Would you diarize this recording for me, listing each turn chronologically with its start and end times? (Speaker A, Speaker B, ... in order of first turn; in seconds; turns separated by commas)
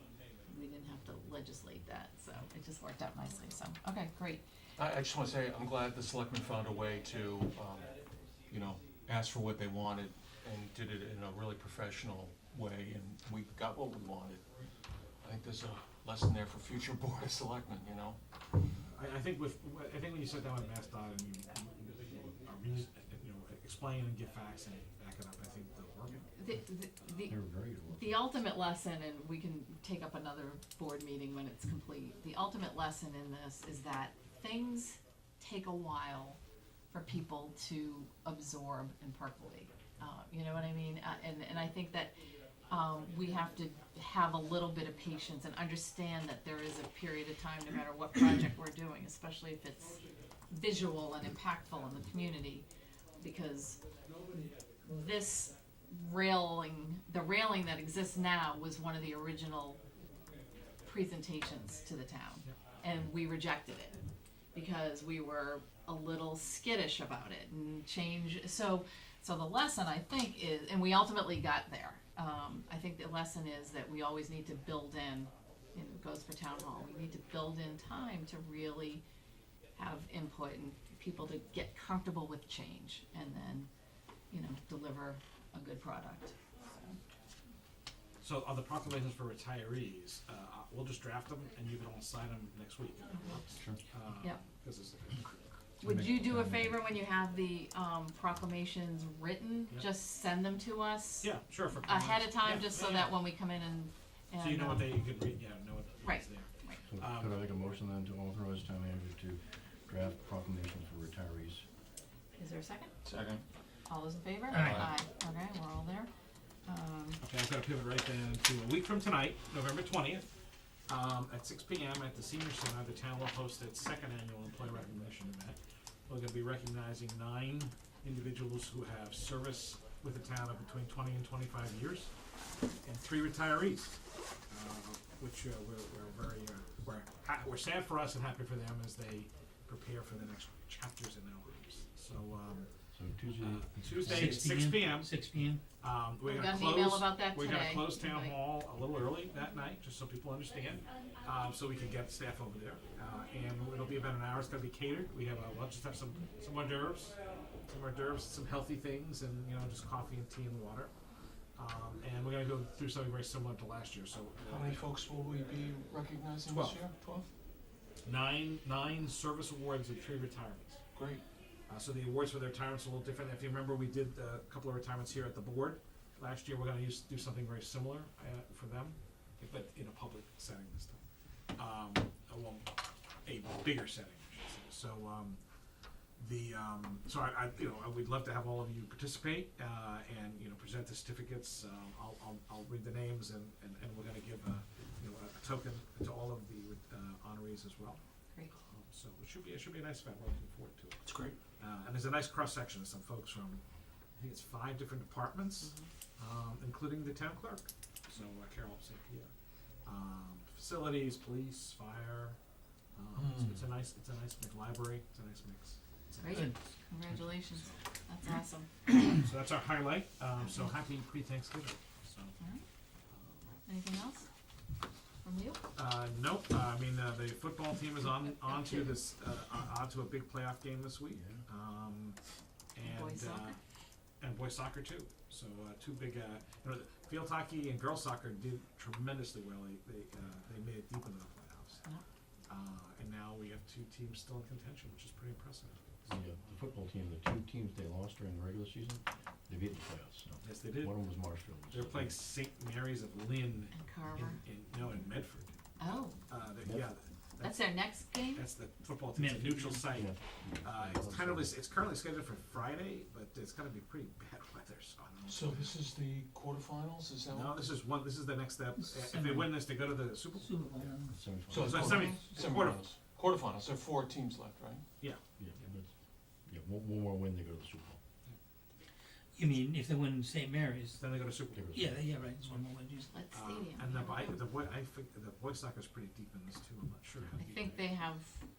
Speaker A: 0.5-4.4, Speaker B: 4.8-7.9, Speaker B: 8.5-14.4, Speaker B: 15.2-18.2, Speaker C: 18.8-26.3, Speaker A: 26.3-27.3, Speaker D: 27.3-28.3, Speaker A: 27.9-36.4, Speaker A: 36.9-42.1, Speaker A: 42.7-52.6, Speaker A: 53.2-53.8, Speaker A: 54.3-59.8, Speaker A: 60.8-64.0, Speaker A: 64.5-79.0, Speaker A: 79.8-83.7, Speaker A: 84.3-87.0, Speaker C: 88.2-95.6, Speaker A: 95.8-105.0, Speaker D: 95.9-96.8, Speaker C: 101.2-103.2, Speaker C: 104.4-107.3, Speaker A: 106.0-106.8, Speaker D: 106.9-111.6, Speaker A: 112.4-112.9, Speaker B: 113.0-113.4, Speaker A: 113.9-116.1, Speaker E: 114.5-114.8, Speaker B: 114.5-114.9, Speaker A: 116.7-117.2, Speaker C: 117.2-120.3, Speaker C: 120.9-132.1, Speaker C: 132.8-142.7, Speaker D: 142.9-144.3, Speaker C: 143.4-145.1, Speaker E: 143.9-145.6, Speaker C: 145.8-160.9, Speaker A: 146.2-148.3, Speaker C: 161.6-164.8, Speaker B: 164.4-167.3, Speaker C: 166.5-166.8, Speaker C: 168.0-170.8, Speaker B: 170.9-171.2, Speaker C: 171.7-181.0, Speaker C: 181.6-182.7, Speaker C: 183.2-185.4, Speaker C: 186.2-198.0, Speaker C: 198.5-201.0, Speaker B: 201.0-201.4, Speaker C: 201.6-203.6, Speaker C: 204.2-209.3, Speaker A: 205.6-205.9, Speaker C: 209.8-212.4, Speaker C: 212.9-216.5, Speaker B: 213.2-213.7, Speaker A: 216.2-218.7, Speaker C: 219.2-222.3, Speaker C: 223.1-223.6, Speaker A: 223.7-224.3, Speaker A: 225.2-225.6, Speaker C: 225.7-232.2, Speaker A: 228.2-229.0, Speaker D: 231.1-231.4, Speaker C: 232.7-233.6, Speaker A: 232.8-233.6, Speaker C: 234.2-241.8, Speaker C: 242.5-246.4, Speaker D: 246.1-252.1, Speaker C: 250.4-250.9, Speaker C: 251.7-265.7, Speaker A: 253.7-254.4, Speaker A: 255.8-256.1, Speaker A: 257.4-258.4, Speaker E: 259.1-259.9, Speaker D: 259.9-261.6, Speaker B: 265.3-267.7, Speaker C: 267.3-270.9, Speaker E: 268.8-269.6, Speaker E: 270.4-272.4, Speaker D: 271.1-272.1, Speaker B: 271.5-274.8, Speaker C: 271.6-272.8, Speaker C: 275.0-275.6, Speaker D: 275.4-275.9, Speaker D: 276.4-278.0, Speaker E: 279.3-281.0, Speaker C: 280.9-281.8, Speaker D: 281.5-282.1, Speaker E: 281.7-283.1, Speaker A: 283.1-284.4, Speaker C: 283.3-288.0, Speaker A: 287.4-288.4